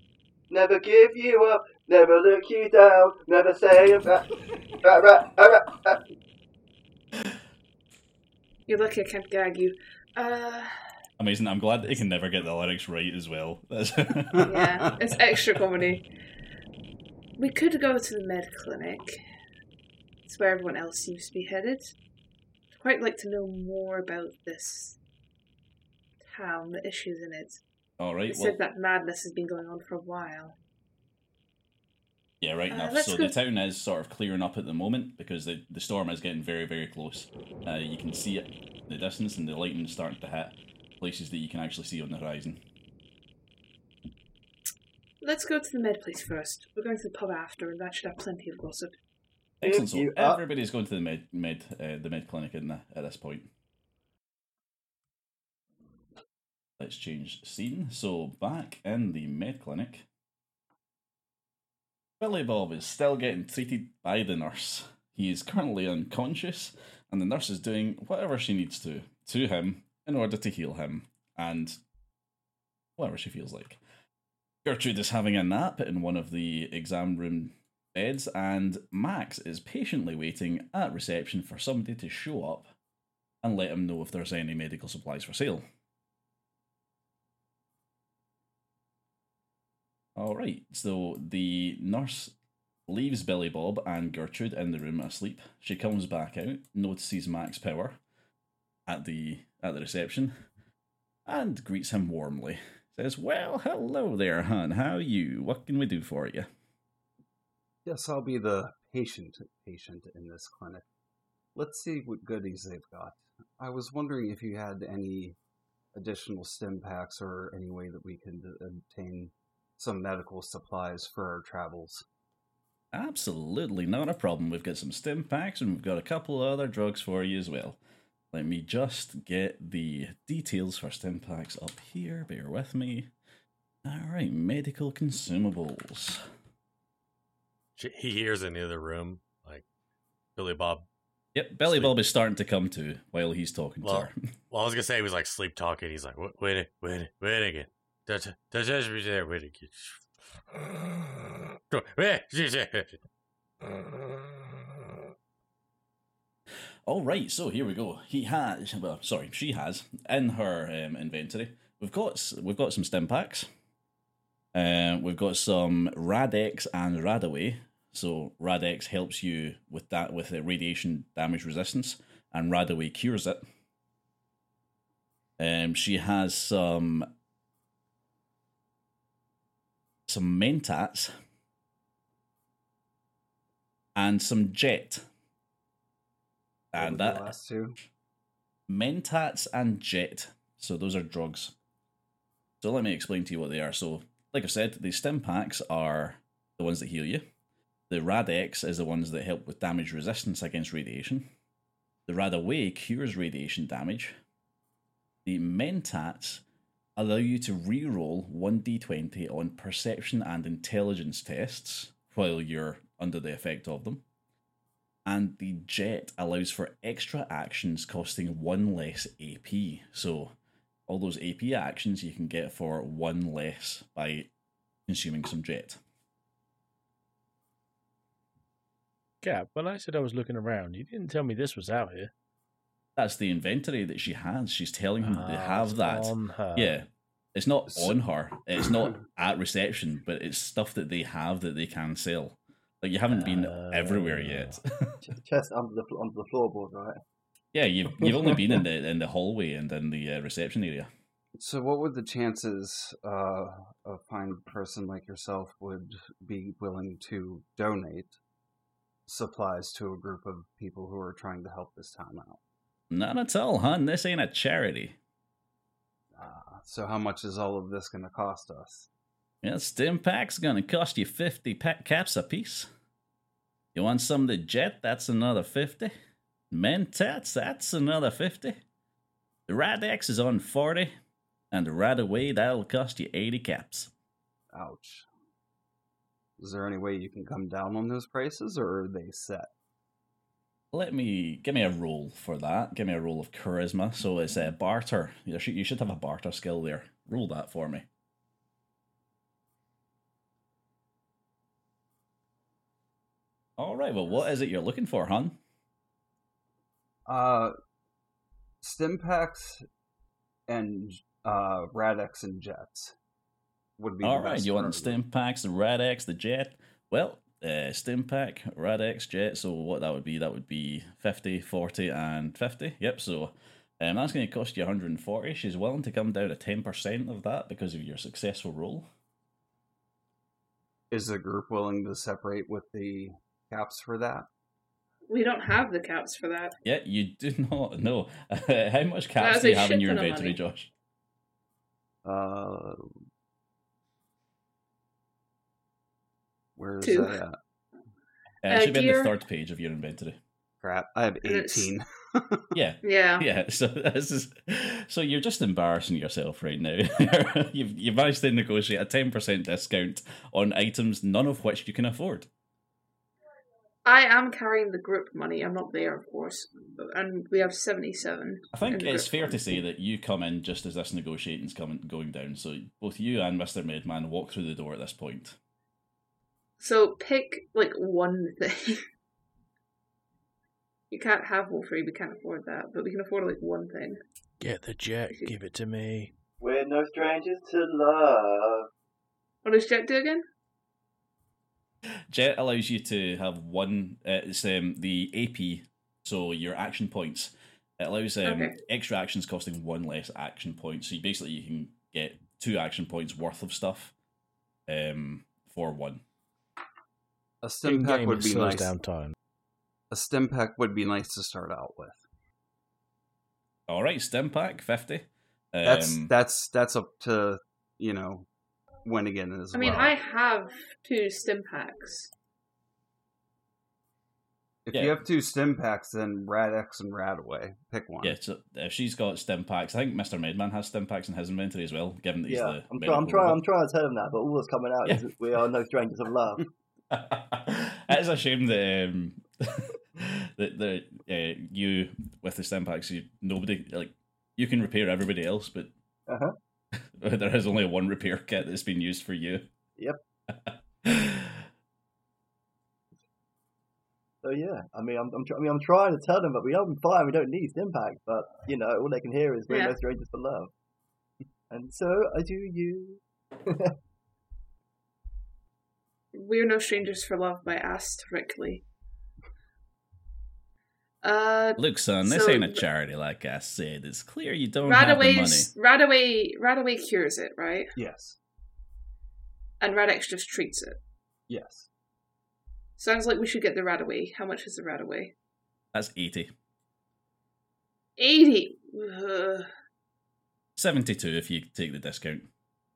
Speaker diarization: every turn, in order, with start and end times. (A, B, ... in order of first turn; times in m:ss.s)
0:00.5-0:06.0 A
0:08.7-0:10.7 B
0:11.2-0:14.6 C
0:14.4-0:16.1 B
0:14.5-0:14.8 D
0:17.4-0:19.2 B
0:20.2-0:22.0 B
0:22.7-0:25.0 B
0:26.2-0:27.6 B
0:28.0-0:28.6 C
0:28.3-0:30.6 B
0:32.4-0:42.6 C
0:32.7-0:33.4 B
0:45.2-0:48.9 B
0:49.6-0:53.5 C
0:49.6-0:50.4 A
0:56.8-1:00.1 C
1:02.2-1:11.8 C
1:13.0-1:13.8 C
1:14.6-1:22.7 C
1:23.4-1:25.6 C
1:30.2-1:32.4 C
1:32.9-1:38.0 C
1:38.9-1:40.4 C
1:41.3-1:46.5 C
1:47.8-1:50.8 D
1:51.6-1:55.4 D
1:56.0-2:02.0 D
2:02.9-2:07.8 C
2:08.3-2:13.1 C
2:13.8-2:16.2 C
2:17.8-2:19.6 E
2:20.4-2:20.9 E
2:21.3-2:24.2 C
2:21.6-2:22.0 E
2:23.8-2:33.0 E
2:33.6-2:34.8 E
2:36.9-2:43.5 C
2:44.5-2:53.4 C
2:55.4-2:57.1 C
3:00.1-3:01.1 C
3:04.0-3:05.0 C
3:06.7-3:07.4 C
3:06.8-3:07.8 D
3:08.7-3:11.6 C
3:12.6-3:17.2 C
3:17.9-3:21.3 C
3:22.1-3:24.2 C
3:25.2-3:26.4 C
3:27.0-3:34.0 C
3:35.1-3:40.3 C
3:40.9-3:44.3 C
3:44.9-3:45.8 C
3:49.2-3:52.1 F
3:53.0-4:05.0 C
3:55.0-3:56.8 F
4:03.1-4:04.6 F
4:05.0-4:07.0 A
4:07.5-4:10.9 C
4:08.0-4:08.6 A
4:11.4-4:18.2 D
4:19.1-4:22.4 D
4:22.9-4:25.0 C
4:26.2-4:28.9 D
4:29.4-4:32.7 C
4:33.8-4:35.9 C
4:36.5-4:38.6 C
4:39.5-4:40.9 C
4:41.5-4:43.9 C
4:44.5-4:45.1 D
4:46.4-4:49.5 D
4:50.7-4:57.9 C
5:03.6-5:05.4 C
5:07.1-5:07.5 D
5:08.6-5:09.6 D
5:10.5-5:13.0 D
5:13.8-5:15.0 D
5:14.0-5:28.9 C
5:30.9-5:34.3 D
5:35.1-5:36.6 B
5:36.6-5:40.7 C
5:39.2-5:40.4 B
5:42.0-5:42.8 D
5:46.6-5:47.4 D
5:46.8-5:47.2 B
5:48.4-5:50.2 C
5:48.5-5:49.2 B
5:50.6-5:52.5 D
5:51.2-5:51.8 B
5:52.5-6:02.3 C
5:52.8-5:53.3 B
6:03.8-6:09.4 B
6:08.5-6:15.4 C
6:16.6-6:18.8 B
6:20.9-6:24.0 B
6:24.4-6:26.1 F
6:26.4-6:28.7 A
6:29.4-6:30.2 B
6:32.1-6:43.9 C
6:38.2-6:38.6 B
6:44.7-6:46.0 C
6:47.4-6:48.8 D
6:47.6-6:49.2 F
6:49.9-6:52.0 D
6:53.7-6:56.1 C
6:55.6-6:58.3 D
6:58.8-7:00.0 D
6:59.5-7:02.1 B
7:04.7-7:08.2 D
7:04.7-7:05.0 C
7:08.0-7:13.4 C
7:12.3-7:16.4 A
7:16.9-7:25.7 C
7:26.1-7:26.4 A
7:26.9-7:29.5 C
7:30.3-7:31.4 C
7:34.2-7:40.5 A
7:39.5-7:39.8 B
7:41.5-7:43.8 A
7:46.1-7:48.6 B
7:51.0-7:52.6 B
7:51.6-7:55.5 C
7:54.6-7:57.7 B
7:57.8-7:58.2 D
7:59.6-8:00.8 B
8:01.3-8:01.7 D
8:02.8-8:05.1 B
8:05.7-8:06.3 C
8:08.0-8:09.5 B
8:10.6-8:12.3 C